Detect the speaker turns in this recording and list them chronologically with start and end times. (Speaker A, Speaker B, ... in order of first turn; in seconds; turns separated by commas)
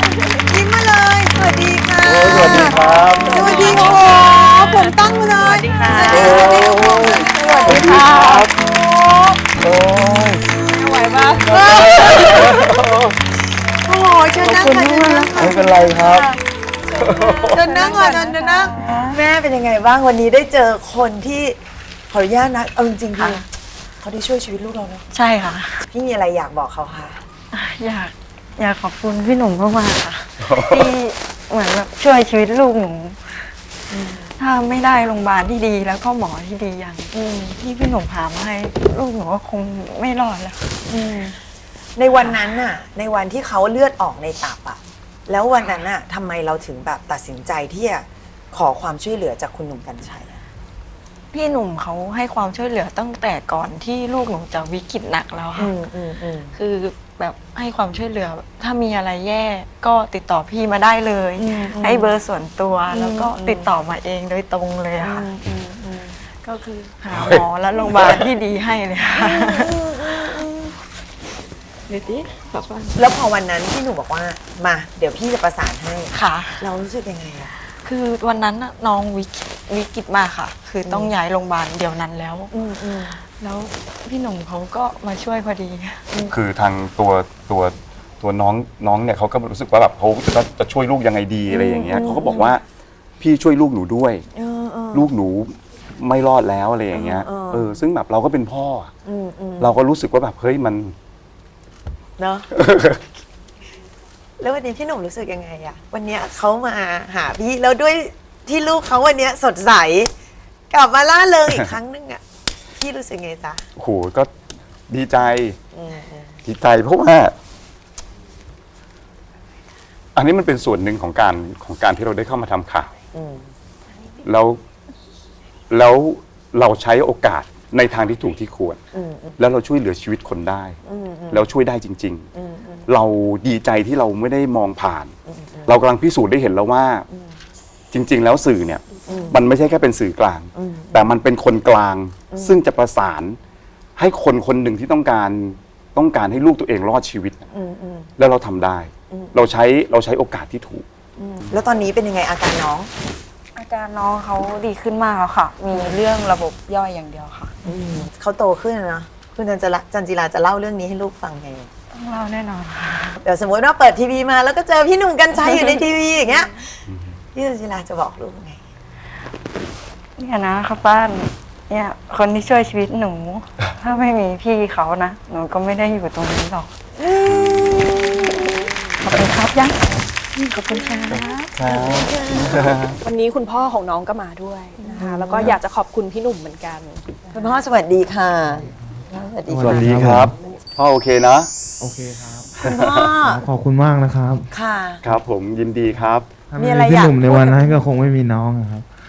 Speaker A: 0.5-9.4, Speaker B: 2.0-3.9, Speaker C: 3.1-8.4, Speaker B: 6.0-8.5, Speaker B: 9.6-10.5, Speaker C: 10.6-12.8, Speaker A: 11.4-12.5, Speaker B: 12.2-13.1, Speaker A: 13.8-16.2, Speaker D: 14.4-15.7, Speaker B: 15.3-16.3, Speaker C: 16.9-17.9, Speaker B: 16.9-17.7, Speaker A: 17.5-21.6, Speaker D: 17.7-19.2, Speaker A: 22.1-23.4, Speaker D: 23.1-23.4, Speaker A: 24.0-25.0, Speaker D: 25.1-25.8, Speaker A: 25.9-27.2, Speaker D: 27.5-33.2, Speaker B: 30.4-30.9, Speaker A: 33.9-34.3, Speaker D: 34.4-40.6, Speaker A: 37.1-37.5, Speaker A: 40.9-41.4, Speaker A: 41.9-50.4, Speaker D: 51.3-55.7, Speaker A: 55.6-56.5, Speaker D: 56.5-65.5, Speaker A: 61.4-62.2, Speaker A: 62.9-63.7, Speaker A: 65.0-66.2, Speaker D: 66.4-69.7, Speaker B: 67.1-67.4, Speaker A: 69.1-70.7, Speaker D: 71.9-73.0, Speaker A: 73.0-77.5, Speaker D: 76.1-76.6, Speaker D: 77.8-82.5, Speaker A: 80.9-81.1, Speaker A: 82.5-83.2, Speaker D: 83.4-86.0, Speaker B: 86.3-92.6, Speaker A: 91.5-92.5, Speaker B: 93.2-94.2, Speaker A: 94.3-95.1, Speaker B: 94.9-98.9, Speaker A: 96.9-97.8, Speaker A: 99.0-99.8, Speaker B: 99.6-100.9, Speaker A: 102.2-102.5, Speaker B: 102.5-103.0, Speaker A: 104.4-110.1, Speaker A: 110.7-112.2, Speaker A: 112.8-113.7, Speaker B: 113.8-114.3, Speaker B: 114.9-115.6, Speaker A: 115.7-116.4, Speaker B: 116.4-117.3, Speaker B: 120.1-122.9, Speaker A: 123.1-123.5, Speaker B: 124.2-124.6, Speaker B: 125.7-128.8, Speaker A: 128.9-129.3, Speaker B: 129.4-130.8, Speaker A: 130.8-131.5, Speaker B: 131.3-132.3, Speaker A: 132.3-132.9, Speaker B: 132.9-135.1, Speaker A: 135.3-135.7, Speaker B: 135.7-137.1, Speaker A: 137.1-137.4, Speaker B: 137.9-143.4, Speaker A: 139.1-139.4, Speaker A: 140.5-141.2, Speaker A: 142.3-142.6, Speaker B: 144.0-147.4, Speaker A: 147.5-148.1, Speaker B: 148.2-150.8, Speaker A: 149.1-149.5, Speaker A: 151.2-152.9, Speaker D: 153.5-157.5, Speaker A: 157.6-161.7, Speaker D: 161.9-163.2, Speaker A: 163.2-166.8, Speaker B: 166.9-167.1, Speaker A: 167.3-168.6, Speaker D: 170.2-176.7, Speaker A: 177.0-178.4, Speaker B: 177.2-177.7, Speaker D: 178.3-181.5, Speaker B: 181.1-183.0, Speaker A: 181.7-182.5, Speaker C: 183.0-187.0, Speaker A: 184.8-185.6, Speaker A: 187.3-189.9, Speaker E: 189.4-190.4, Speaker B: 189.6-191.5, Speaker E: 191.8-194.5, Speaker A: 192.6-193.4, Speaker B: 192.6-193.1, Speaker A: 194.5-195.0, Speaker B: 195.0-196.3, Speaker E: 196.5-198.9, Speaker A: 196.6-197.8